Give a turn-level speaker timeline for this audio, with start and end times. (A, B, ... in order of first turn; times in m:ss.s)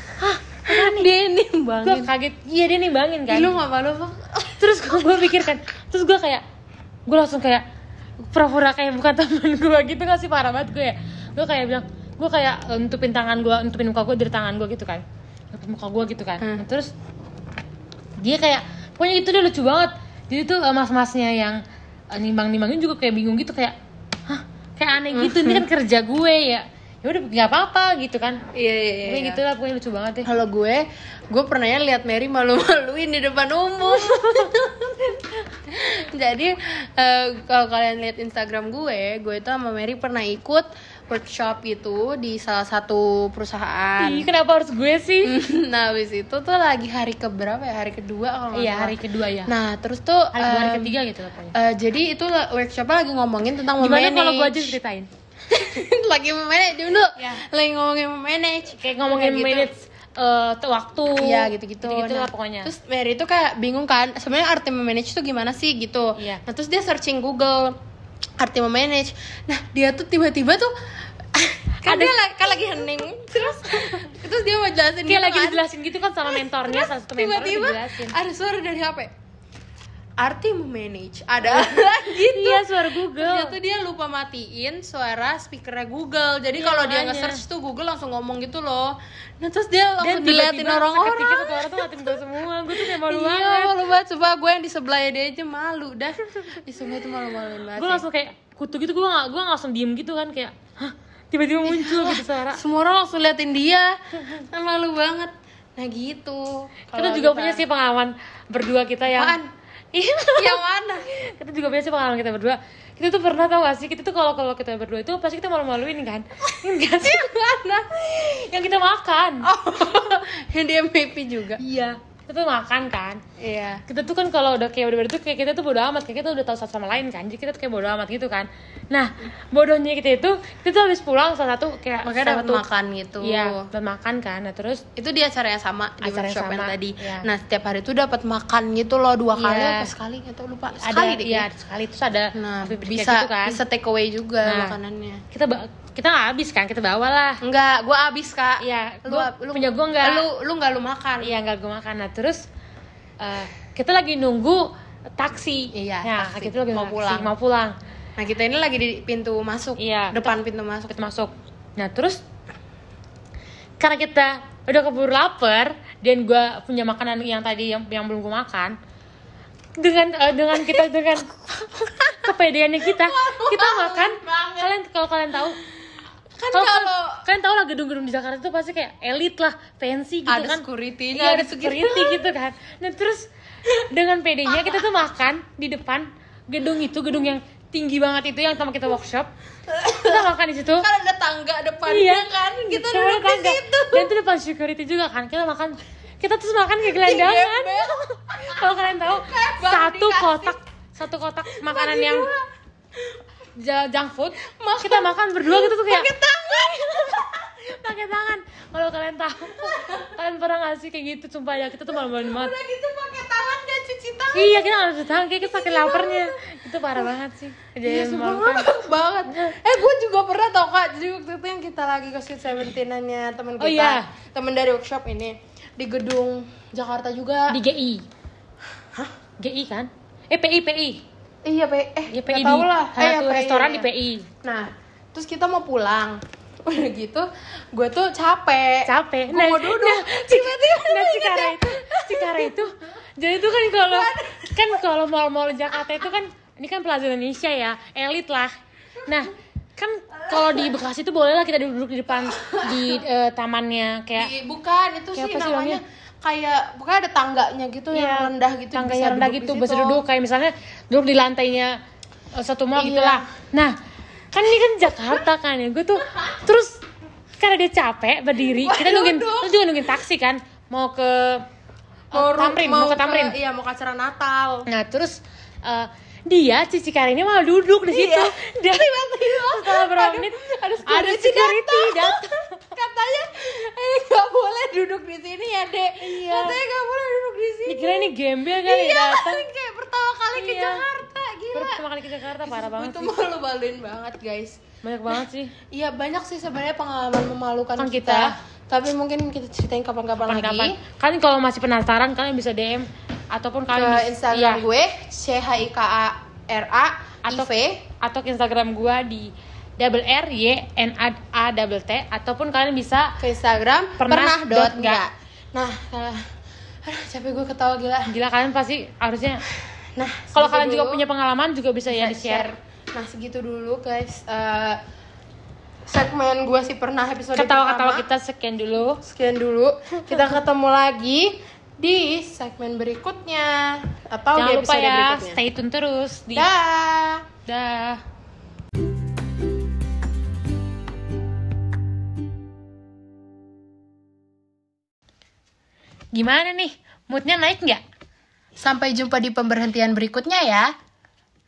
0:00.2-0:01.1 A
0:00.7-0:02.1 B
0:01.8-0:03.5 A
0:03.3-0:05.3 B
0:04.6-0:06.4 A
0:07.1-0:07.6 A
0:08.3-0:16.9 A
0:18.2-0:21.6 A
0:22.2-0:23.8 A
0:24.3-0:28.4 A
0:25.1-0:25.6 B
0:28.5-0:29.4 B
0:29.1-0:30.3 A
0:30.2-0:44.3 B
0:33.9-0:34.5 A
0:44.0-0:45.4 A
0:45.2-0:51.0 B
0:48.5-0:49.5 A
0:50.3-0:51.6 A
0:51.5-0:54.8 B
0:53.8-0:55.1 A
0:55.5-0:59.7 B
0:58.8-1:02.7 A
1:01.2-1:07.8 B
1:08.4-1:10.7 B
1:11.4-1:15.6 B
1:11.8-1:12.8 A
1:15.1-1:18.2 A
1:16.3-1:19.1 B
1:20.2-1:32.2 B
1:21.5-1:23.6 A
1:26.6-1:27.4 A
1:30.0-1:33.8 A
1:32.8-1:38.0 B
1:36.4-1:37.1 A
1:37.7-1:42.6 A
1:41.6-1:47.6 B
1:46.9-1:49.4 A
1:49.1-1:49.5 B
1:49.9-1:57.3 A
1:50.4-1:51.1 B
1:56.5-1:58.0 B
1:58.0-1:59.5 A
1:59.4-2:01.6 B
2:01.6-2:03.2 A
2:03.4-2:03.8 B
2:03.9-2:12.6 A
2:12.0-2:13.7 B
2:13.2-2:14.8 A
2:15.0-2:21.5 B
2:16.0-2:17.3 A
2:19.4-2:19.9 A
2:20.8-2:23.6 A
2:22.3-2:25.2 B
2:24.4-2:24.8 A
2:25.3-2:27.4 A
2:27.4-2:31.3 B
2:28.6-2:30.3 A
2:31.2-2:32.4 A
2:33.2-2:37.8 A
2:35.7-2:37.3 B
2:38.2-2:40.9 B
2:39.8-2:40.3 A
2:40.9-2:42.2 A
2:43.8-2:48.8 A
2:49.8-2:51.3 A
2:50.6-2:50.8 B
2:51.6-2:52.3 B
2:52.2-2:55.6 A
2:52.8-2:54.7 B
2:56.4-2:57.2 B
2:56.5-3:03.3 A
3:00.3-3:02.3 B
3:03.8-3:09.3 A
3:04.5-3:04.8 B
3:09.7-3:14.1 B
3:10.0-3:10.9 A
3:11.9-3:17.9 A
3:16.9-3:20.6 B
3:18.5-3:22.3 A
3:21.5-3:22.4 B
3:23.6-3:26.1 A
3:24.4-3:27.5 B
3:27.6-3:32.6 A
3:29.6-3:30.1 B
3:32.1-3:36.4 B
3:34.3-3:38.8 A
3:37.8-3:47.6 B
3:39.3-3:39.6 A
3:43.6-3:44.1 A
3:47.5-3:48.0 A
3:49.4-3:51.0 A
3:51.4-3:53.9 B
3:52.1-3:54.3 A
3:54.4-4:02.6 B
3:58.9-4:08.5 A
4:03.8-4:04.8 B
4:09.0-4:14.3 A
4:10.1-4:10.8 B
4:12.2-4:13.0 B
4:14.2-4:20.0 B
4:15.1-4:15.8 A
4:17.9-4:21.7 A
4:22.4-4:23.7 A
4:22.8-4:23.2 B
4:24.3-4:26.8 A
4:27.4-4:31.4 A
4:28.6-4:29.5 B
4:32.1-4:33.4 A
4:32.1-4:34.6 B
4:34.7-4:38.4 A
4:37.9-4:48.1 B
4:39.2-4:42.5 A
4:46.0-4:46.6 A
4:47.7-4:49.5 A
4:48.6-4:51.8 B
4:50.3-4:50.8 A
4:51.5-4:53.1 A
4:52.4-4:54.6 B
4:54.8-4:55.5 A
4:55.7-5:00.8 B
4:57.8-4:58.4 A
5:00.2-5:04.6 A
5:03.7-5:07.8 B
5:07.2-5:07.5 A
5:08.0-5:13.1 A
5:13.2-5:16.2 B
5:14.0-5:15.0 A
5:16.8-5:18.1 B
5:18.1-5:19.4 A
5:20.0-5:21.0 B
5:20.3-5:22.5 A
5:21.9-5:24.8 B
5:25.9-5:28.1 B
5:27.4-5:29.0 A
5:29.0-5:35.4 B
5:30.1-5:30.4 A
5:34.4-5:36.5 A
5:36.3-5:37.3 B
5:37.5-5:38.0 A
5:46.2-5:47.8 A
5:48.6-5:50.7 B